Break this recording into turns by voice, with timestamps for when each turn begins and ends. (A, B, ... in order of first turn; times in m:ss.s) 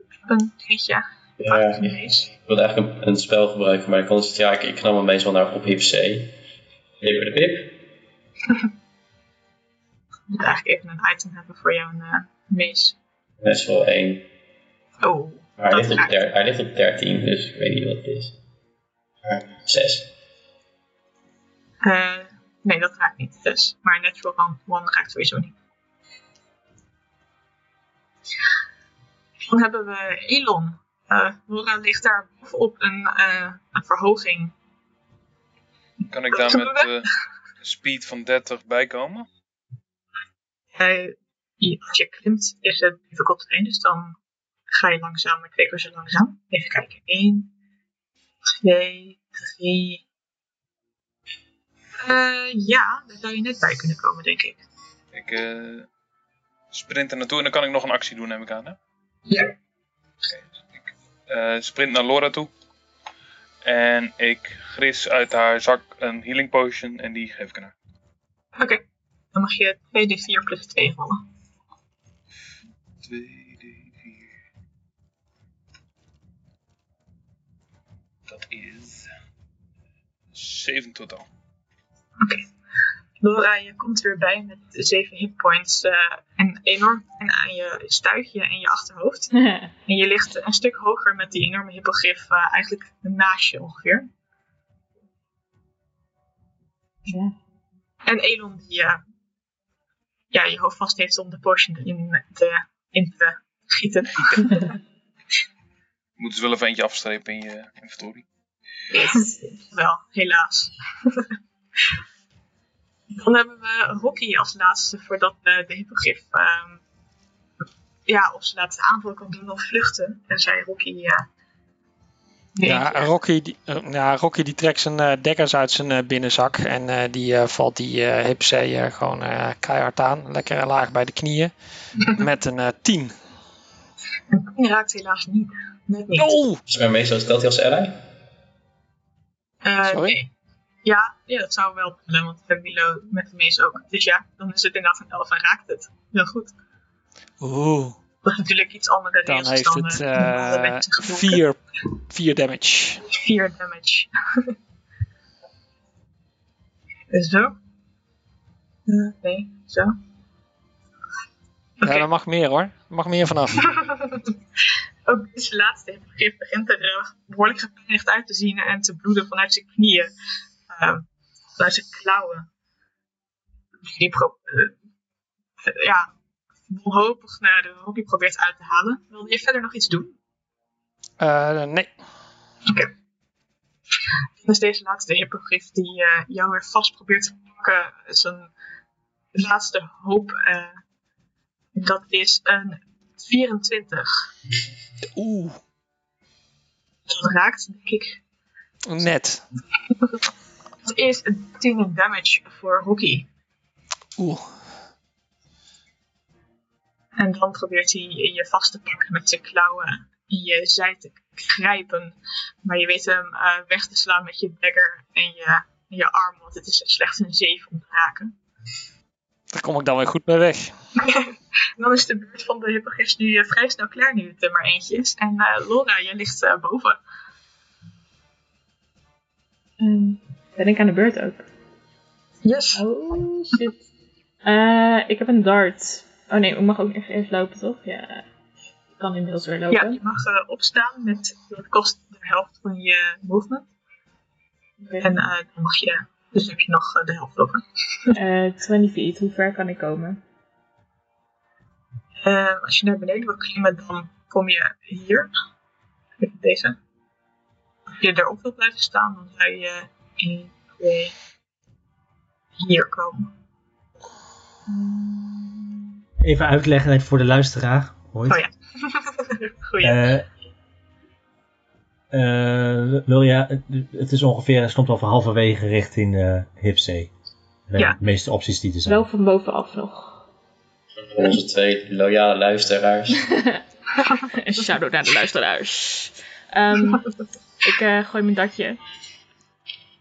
0:00.2-0:02.3 A
0:01.4-0:06.4 B
0:07.0-0:07.8 B
0:10.3-0:13.0 A
0:13.4-0:14.3 B
0:15.0-0:16.2 A
0:15.6-0:18.4 B
0:19.2-0:20.1 B
0:21.8-0:25.6 A
0:29.4-0:34.5 A
0:36.1-0:37.1 C
0:36.3-0:37.1 A
0:37.6-0:39.3 C
0:40.8-0:44.2 A
0:44.7-0:47.5 A
0:48.6-0:50.0 A
0:52.0-0:54.6 A
0:55.1-0:55.9 C
0:56.7-0:58.8 C
0:59.3-0:59.5 A
1:00.3-1:02.5 C
1:03.6-1:07.7 C
1:08.6-1:08.8 A
1:09.3-1:11.2 A
1:13.0-1:14.2 C
1:18.3-1:19.1 C
1:20.4-1:21.3 C
1:23.2-1:29.3 A
1:29.4-1:29.7 D
1:29.9-1:34.1 A
1:37.1-1:37.3 D
1:38.1-1:39.0 A
1:40.3-1:44.8 A
1:46.2-1:48.2 C
1:48.9-1:51.3 A
1:48.9-1:49.3 D
1:53.1-1:56.8 A
1:58.1-2:01.3 A
2:02.6-2:03.1 A
2:02.6-2:13.2 E
2:14.3-2:16.4 A
2:16.2-2:16.6 E
2:16.7-2:18.0 B
2:19.6-2:20.3 A
2:19.8-2:20.2 E
2:20.8-2:26.5 A
2:27.4-2:28.0 E
2:28.2-2:31.4 A
2:29.2-2:33.0 E
2:33.1-2:34.5 A
2:37.1-2:37.5 A
2:38.9-2:39.9 A
2:41.8-2:42.1 A
2:41.8-2:43.8 E
2:43.7-2:44.3 A
2:45.1-2:50.1 A
2:50.7-2:51.1 A
2:51.6-2:52.5 A
2:53.8-2:54.7 A
2:55.6-2:56.1 A
2:56.7-3:00.1 A
3:01.2-3:01.9 E
3:04.4-3:08.5 A
3:09.4-3:10.8 A
3:11.8-3:14.3 A
3:15.2-3:15.6 E
3:17.1-3:18.2 A
3:18.9-3:19.4 E
3:20.9-3:23.3 A
3:24.2-3:24.5 E
3:27.2-3:38.4 A
3:39.5-3:40.7 E
3:41.0-3:47.0 A
3:49.8-3:51.5 D
3:52.4-3:52.8 A
3:52.8-3:53.8 D
3:54.4-3:58.2 D
3:59.0-4:00.0 D
3:59.7-4:03.7 A
4:04.8-4:05.1 D
4:05.0-4:08.1 A
4:08.2-4:10.2 D
4:12.2-4:15.3 A
4:16.2-4:16.8 A
4:18.0-4:21.2 A
4:22.6-4:23.3 A
4:24.7-4:25.6 A
4:26.2-4:28.4 F
4:28.3-4:30.1 A
4:29.8-4:30.3 F
4:32.1-4:37.1 F
4:37.7-4:39.0 F
4:38.9-4:40.2 D
4:41.1-4:43.3 B
4:43.3-4:43.6 D
4:44.3-4:47.1 D
4:47.6-4:48.8 D